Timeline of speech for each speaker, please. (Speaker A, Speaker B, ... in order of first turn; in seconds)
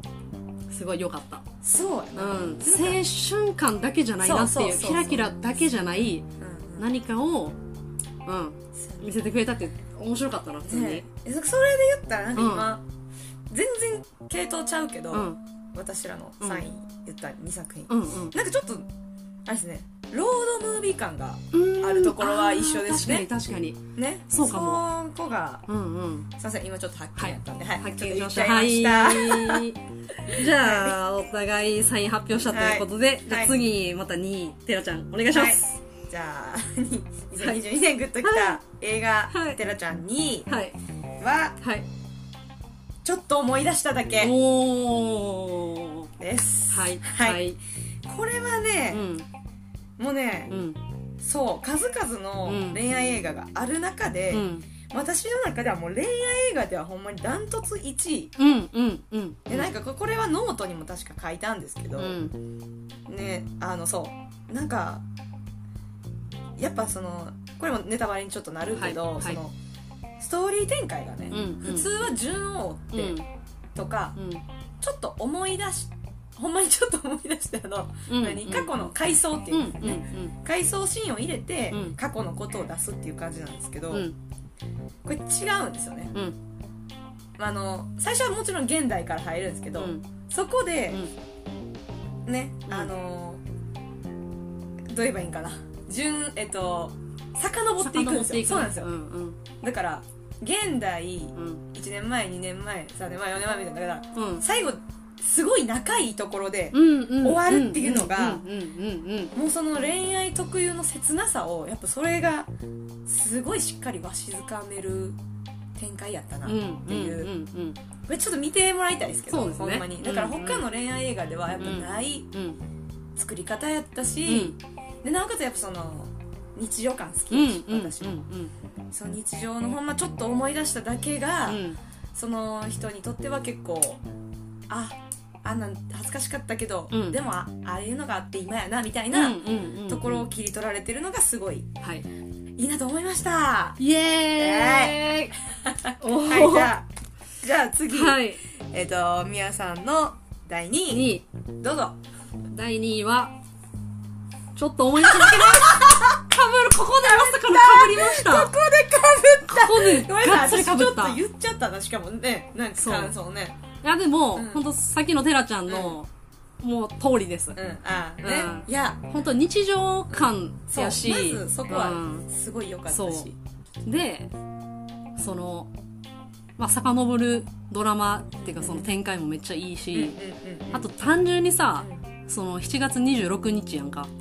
Speaker A: 0.7-1.4, 2.1-6.2, 6.8-7.6, 8.2-11.0, 12.3-12.8, 15.1-15.4, 17.9-18.4, 21.5-24.8, 25.7-26.3, 27.2-35.8, 38.2-38.6, 39.3-39.6, 40.5-40.8, 41.6-41.9, 44.2-46.1, 46.7-47.6, 48.9-49.2, 50.5-50.8, 52.5-52.8, 54.3-54.7, 58.4-59.7, 62.0-62.3, 68.7-69.4, 71.3-71.9, 72.9-73.2, 74.2-74.4, 78.1-78.8, 79.5-80.3, 81.7-82.0, 83.9-84.1, 89.8-90.0, 97.8-99.4, 101.3-101.6, 104.1-104.4, 106.7-109.3, 116.4-117.8, 119.3-120.7, 121.6-122.6, 124.2-124.6, 127.3-128.5, 131.5-131.8, 136.9-137.2, 139.1-140.3, 141.8-142.1, 143.8-145.3, 146.0-146.7, 147.9-148.4, 150.9-151.2, 152.5-153.3, 154.5-158.5, 159.5-161.2, 162.8-163.1, 163.8-166.1, 166.6-167.6, 168.2-172.2, 172.9-173.3, 173.8-174.3, 175.2-175.7, 176.6-180.2, 180.7-184.1
Speaker B: 1.6-3.0, 4.2-6.9, 8.7-9.3, 10.6-12.8, 13.5-18.9, 19.4-23.3, 23.9-25.6, 26.4-29.6, 30.5-31.0, 32.3-33.5, 35.3-40.5, 41.2-41.6, 43.0-44.3, 46.2-47.5, 48.0-49.1, 50.0-50.5, 51.2-58.3, 59.5-62.2, 63.1-65.0, 66.6-69.5, 70.2-73.2, 73.7-74.2, 74.8-84.1, 85.0-86.1, 87.4-91.0, 92.2-93.4, 94.9-98.9, 99.6-108.4, 109.3-112.5, 113.0-115.2, 115.8-117.3, 118.1-122.3, 123.2-128.2, 128.9-131.6, 132.1-134.0, 134.7-141.7, 142.6-143.8, 144.3-146.8, 147.4-152.0, 155.0-156.2, 157.0-163.6, 164.3-164.6, 165.7-165.9, 167.6-169.1, 170.1-173.3, 178.4-178.9, 179.9-180.9, 181.8-182.1